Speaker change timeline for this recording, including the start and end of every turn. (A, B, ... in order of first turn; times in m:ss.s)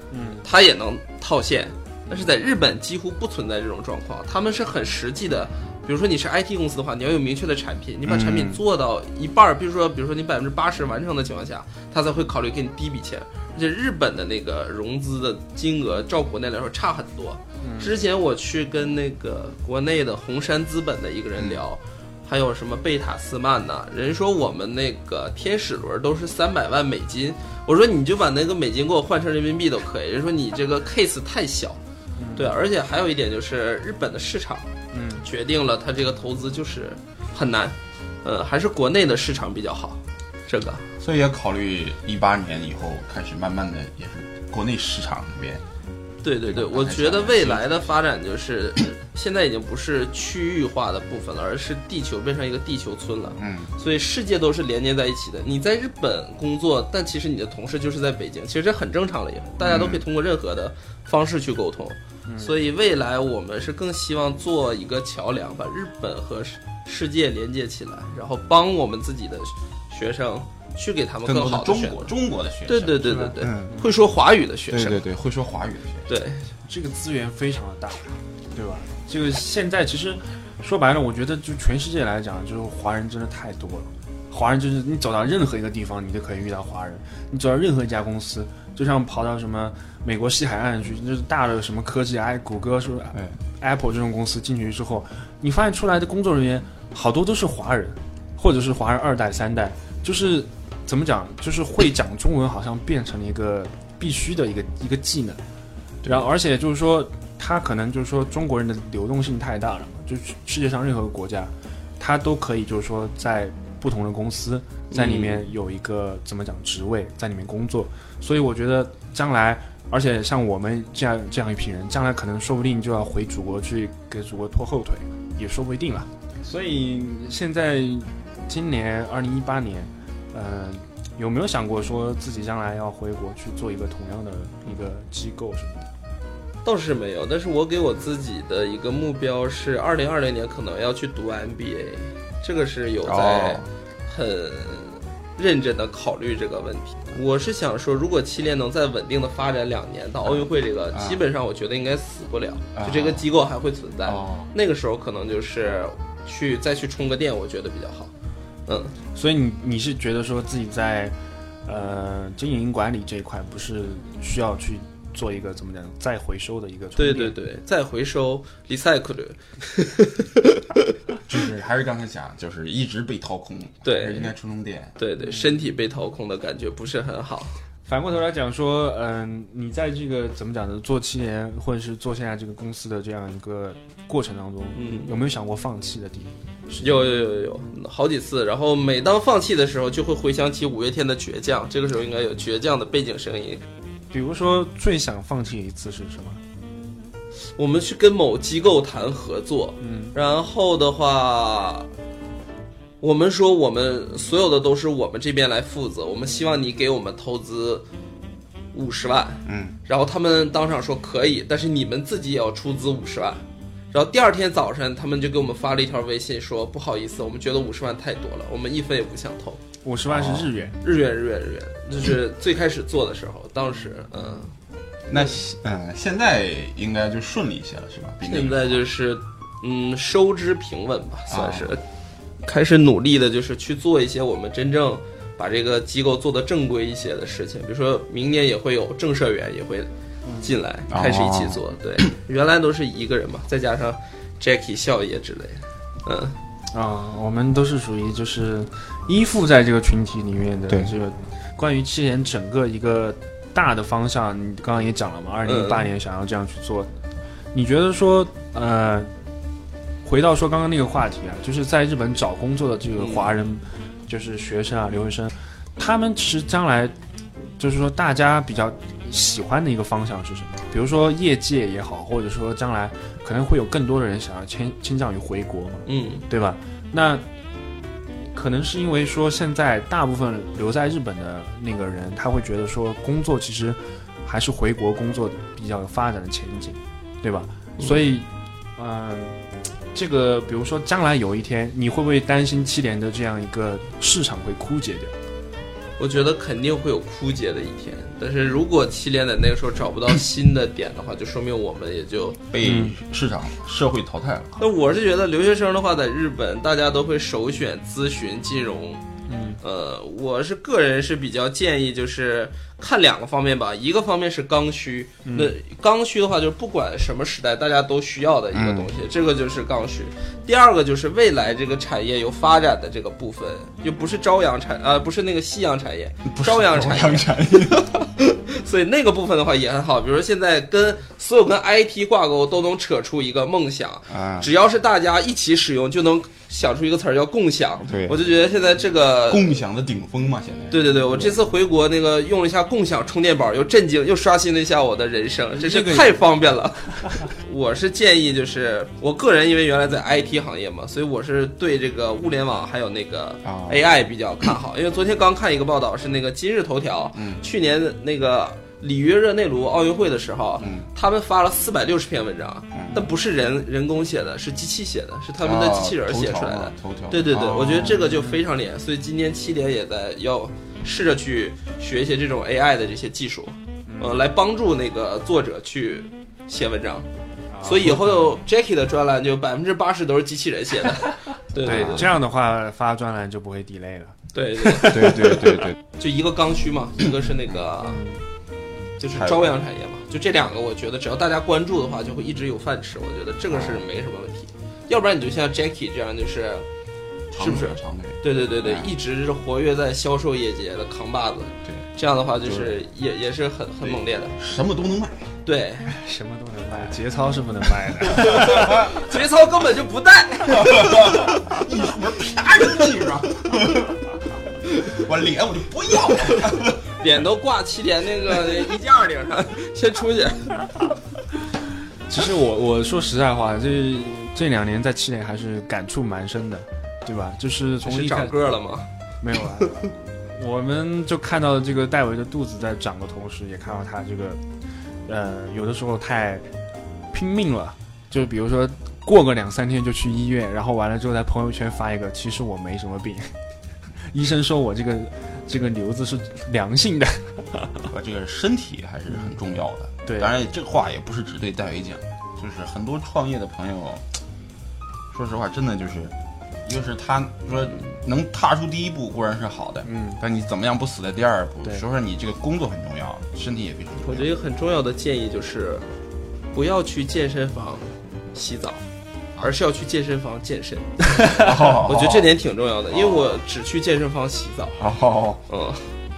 0:00.1-0:00.5 A
0:00.4-0:31.8 B
0:08.0-0:08.6 C
0:17.6-0:17.9 A
0:32.2-0:32.6 A
0:32.4-0:34.7 B
0:34.9-0:35.2 A
0:35.2-0:40.8 B
0:41.0-0:45.6 C
0:46.2-1:12.1 B
0:46.4-0:47.8 C
0:53.4-0:53.7 C
0:59.6-1:00.0 C
1:02.3-1:02.5 A
1:11.2-1:13.8 C
1:12.6-1:15.0 B
1:13.7-1:13.9 A
1:14.7-1:16.1 C
1:16.1-1:16.5 B
1:16.7-1:45.4 A
1:46.0-1:46.3 C
1:46.0-2:15.9 A
1:54.9-1:55.4 B
2:16.6-2:38.1 B
2:23.0-2:23.7 C
2:30.2-2:31.2 C
2:32.8-2:33.2 C
2:34.0-2:34.5 C
2:38.7-2:38.9 B
2:39.1-2:47.4 A
2:47.0-2:50.8 B
2:51.3-2:54.9 C
2:53.8-2:54.3 B
2:55.0-2:57.6 B
2:55.2-2:55.6 A
2:57.8-3:06.8 A
3:04.7-3:05.1 B
3:06.8-3:13.6 B
3:14.1-3:16.4 A
3:17.6-3:21.9 B
3:19.8-3:20.1 A
3:23.0-3:27.8 B
3:28.7-3:39.6 B
3:29.4-3:29.8 C
3:39.8-3:40.8 A
3:40.1-3:40.5 C
3:40.8-3:44.5 B
3:45.1-3:48.9 C
3:48.2-3:51.8 B
3:51.3-3:51.8 C
3:52.4-3:59.9 B
4:00.2-4:00.5 A
4:00.4-4:06.4 B
4:00.9-4:01.6 C
4:06.7-4:16.9 A
4:15.4-4:15.9 B
4:17.5-4:19.1 A
4:20.0-4:26.9 A
4:23.0-4:23.3 B
4:27.6-4:37.2 A
4:35.9-4:36.2 B
4:38.3-4:49.4 A
4:47.8-4:48.0 B
4:49.9-4:55.1 A
4:56.0-5:02.4 B
5:02.5-5:04.6 C
5:02.6-5:03.0 A
5:04.6-5:09.0 B
5:09.3-5:09.6 A
5:09.6-5:39.6 B
5:15.2-5:15.5 A
5:18.5-5:18.9 C
5:26.3-5:28.1 C
5:34.1-5:34.5 C
5:37.8-5:38.2 C
5:39.3-5:41.4 C
5:40.7-6:17.1 B
5:45.6-5:46.2 A
5:53.4-5:53.8 C
5:57.1-5:57.4 C
6:00.6-6:00.9 C
6:02.7-6:03.1 C
6:05.4-6:08.0 C
6:07.8-6:08.4 A
6:13.9-6:14.2 A
6:17.5-6:18.4 A
6:17.6-6:22.1 B
6:21.6-6:25.6 A
6:21.6-6:22.1 C
6:24.3-6:28.0 B
6:24.8-6:25.8 C
6:27.8-6:28.2 A
6:29.0-6:36.7 B
6:29.1-6:29.5 C
6:33.5-6:33.8 C
6:37.3-6:38.9 C
6:37.4-6:44.4 B
6:42.4-6:42.8 C
6:43.8-6:45.3 C
6:45.4-6:45.9 B
6:45.9-6:48.7 A
6:48.1-6:51.4 B
6:48.2-6:49.0 C
6:50.5-6:54.1 C
6:54.8-6:56.9 C
6:57.0-7:00.6 B
7:02.1-7:08.3 A
7:07.8-7:08.9 B
7:09.2-7:14.4 A
7:15.0-7:16.4 A
7:17.1-7:23.3 A
7:24.1-7:27.9 A
7:27.9-7:34.1 C
7:30.0-7:30.3 A
7:35.1-7:44.3 C
7:39.8-7:40.2 A
7:44.0-7:45.8 B
7:46.5-7:48.8 B
7:49.4-7:54.8 B
7:51.2-7:51.5 A
7:51.2-7:52.3 C
7:52.9-7:53.4 C
7:54.8-7:55.4 C
7:55.5-7:55.9 B